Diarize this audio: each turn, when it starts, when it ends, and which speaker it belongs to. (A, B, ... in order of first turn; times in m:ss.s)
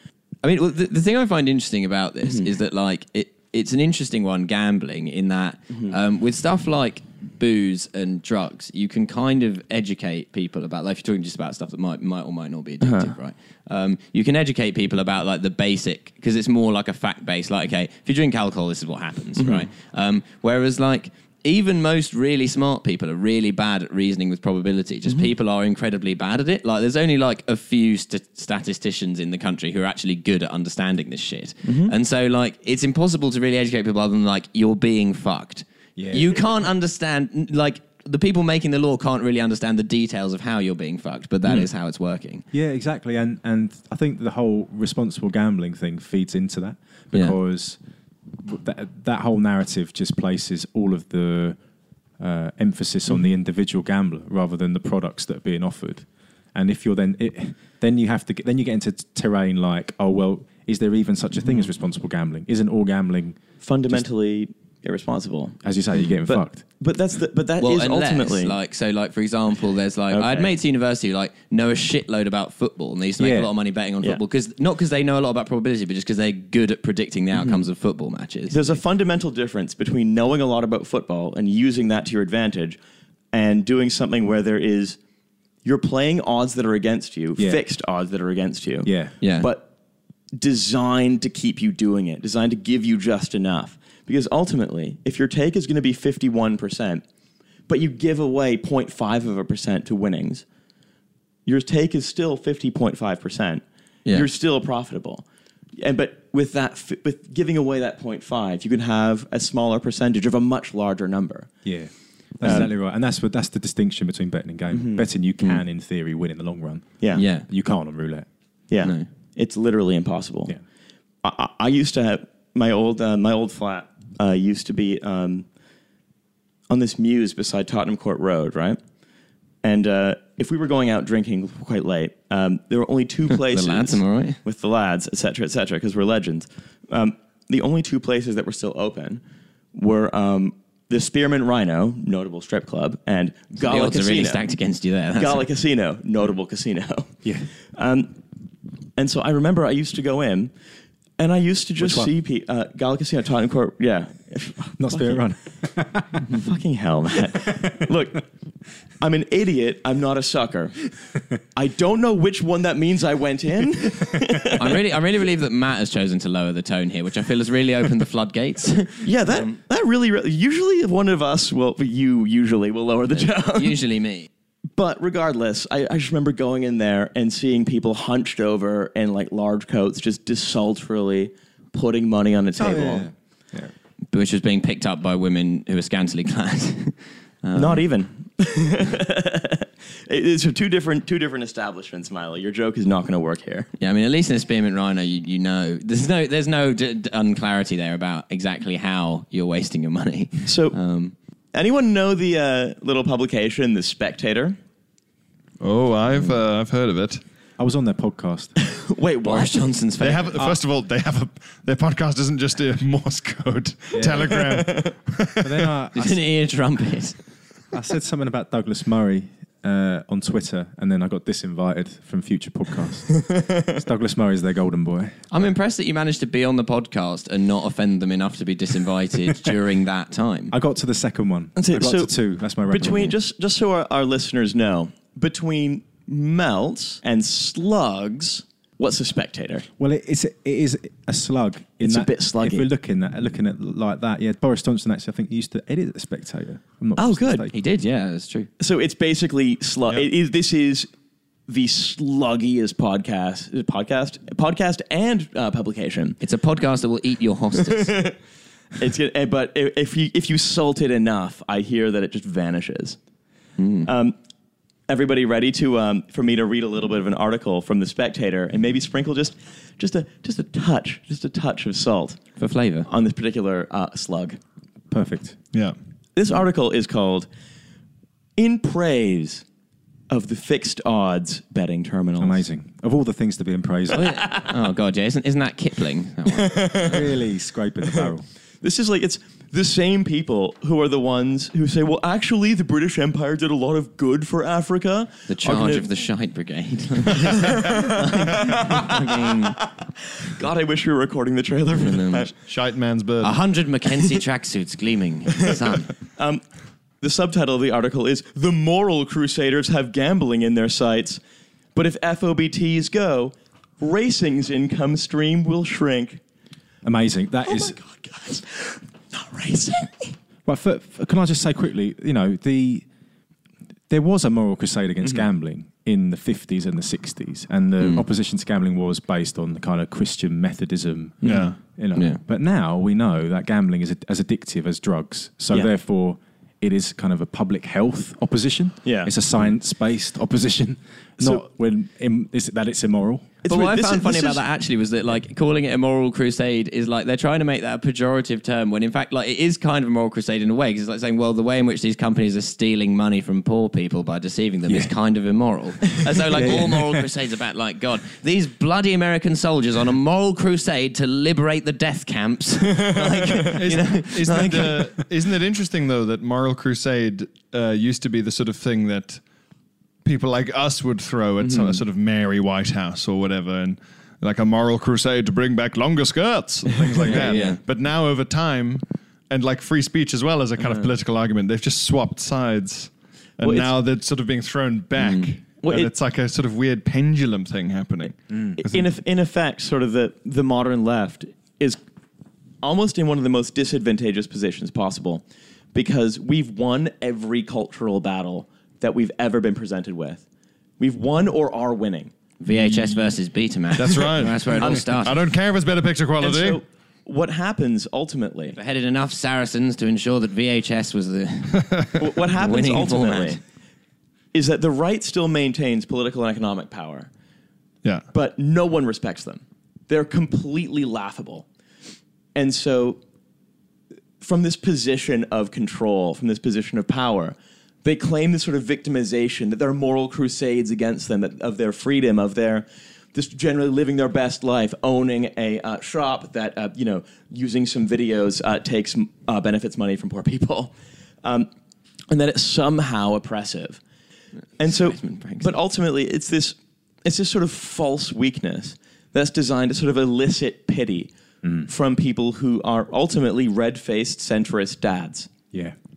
0:00.4-0:42.4 A
0:02.2-0:02.5 B
0:12.8-0:13.1 B
0:19.4-0:19.7 B
0:31.6-0:31.9 B
0:36.0-0:36.3 C
0:42.5-0:47.8 C
0:48.4-0:51.6 C
0:52.2-1:04.0 C
1:03.6-1:08.5 B
1:05.6-1:06.6 C
1:07.6-1:18.8 A
1:10.1-1:10.5 B
1:13.2-1:13.5 C
1:17.3-1:17.6 B
1:18.5-1:22.8 B
1:23.3-1:25.0 B
1:25.6-1:29.7 B
1:28.8-1:29.1 C
1:29.2-1:29.5 A
1:30.4-1:37.0 B
1:37.7-1:40.4 B
1:41.4-1:45.2 B
1:45.8-1:51.5 B
1:51.6-1:58.2 C
1:52.4-1:52.7 B
1:54.7-1:55.6 B
1:57.1-1:57.4 A
1:58.7-2:00.5 B
1:58.8-1:59.1 A
2:01.2-2:05.4 B
2:06.7-2:08.8 B
2:09.6-2:19.2 B
2:13.3-2:14.4 A
2:19.7-2:24.5 B
2:23.6-2:25.4 A
2:25.2-2:28.1 B
2:27.2-2:27.5 C
2:29.0-2:30.5 B
2:31.2-2:35.2 B
2:31.8-2:32.1 C
2:34.8-2:36.4 C
2:36.3-2:38.2 B
2:37.3-2:37.9 C
2:39.0-2:40.8 B
2:41.5-2:44.8 B
2:44.6-2:49.5 A
2:49.0-2:53.8 B
2:53.1-2:54.3 A
2:54.7-3:03.1 B
3:02.6-3:03.7 C
3:04.1-3:07.8 A
3:07.5-3:13.7 B
3:13.8-3:21.1 A
3:20.4-3:20.8 B
3:21.5-3:24.6 B
3:25.6-3:27.2 D
3:27.6-3:28.5 C
3:28.6-3:29.7 B
3:29.2-3:30.4 A
3:30.0-3:35.7 D
3:33.9-3:34.4 C
3:34.0-3:34.9 B
3:35.4-3:36.2 C
3:35.9-3:37.2 A
3:37.7-3:45.2 C
3:43.2-3:43.6 B
3:45.3-3:50.5 A
3:50.5-3:53.1 C
3:51.6-3:52.1 B
3:52.7-3:59.7 B
3:59.8-4:07.5 C
4:01.8-4:02.7 B
4:07.0-4:07.5 B
4:07.5-4:08.5 A
4:08.6-4:10.9 B
4:11.5-4:16.2 B
4:16.2-4:18.0 A
4:17.7-4:18.2 B
4:18.8-4:23.0 B
4:23.6-4:23.9 A
4:23.8-4:24.1 B
4:24.9-4:32.2 B
4:32.4-4:32.9 A
4:32.9-4:34.4 B
4:34.9-4:35.4 C
4:36.2-4:37.3 B
4:38.4-4:39.4 B
4:40.1-4:42.4 B
4:42.2-4:44.3 C
4:43.9-4:46.9 A
4:46.3-4:47.2 B
4:46.8-4:48.2 C
4:47.8-4:48.1 B
4:48.6-4:55.9 B
4:55.3-4:59.6 A
4:57.2-5:02.3 B
5:01.8-5:02.3 A
5:02.4-5:03.4 D
5:03.2-5:05.9 A
5:06.2-5:06.4 B
5:07.0-5:11.2 B
5:11.7-5:16.2 B
5:16.8-5:17.8 C
5:17.4-5:20.2 B
5:20.4-5:22.8 C
5:23.9-5:43.3 C
5:31.2-5:32.2 A
5:31.2-5:31.6 D
5:38.8-5:39.1 B
5:43.4-5:44.4 B
5:43.4-6:04.9 A
5:56.4-5:57.0 C
6:03.5-6:09.2 D
6:10.0-6:28.9 D
6:11.4-6:11.8 A
6:17.0-6:17.6 A
6:23.4-6:23.7 B
6:25.0-6:25.3 A
6:25.6-6:25.9 B
6:28.3-6:28.6 C
6:28.6-6:31.8 B
6:32.6-6:40.2 B
6:40.8-6:42.1 B
6:42.4-6:45.2 A
6:42.5-6:43.0 D
6:43.7-6:46.6 D
6:44.6-6:44.9 B
6:46.2-6:48.6 B
6:48.5-6:53.4 A
6:51.5-6:52.0 D
6:52.0-6:53.4 B
6:54.3-6:57.1 B
6:58.1-7:01.4 B
7:02.3-7:03.0 B
7:04.2-7:20.7 B
7:22.1-7:23.8 B
7:24.6-7:31.1 B
7:24.6-7:25.5 A
7:31.4-7:31.7 C
7:31.6-7:35.3 B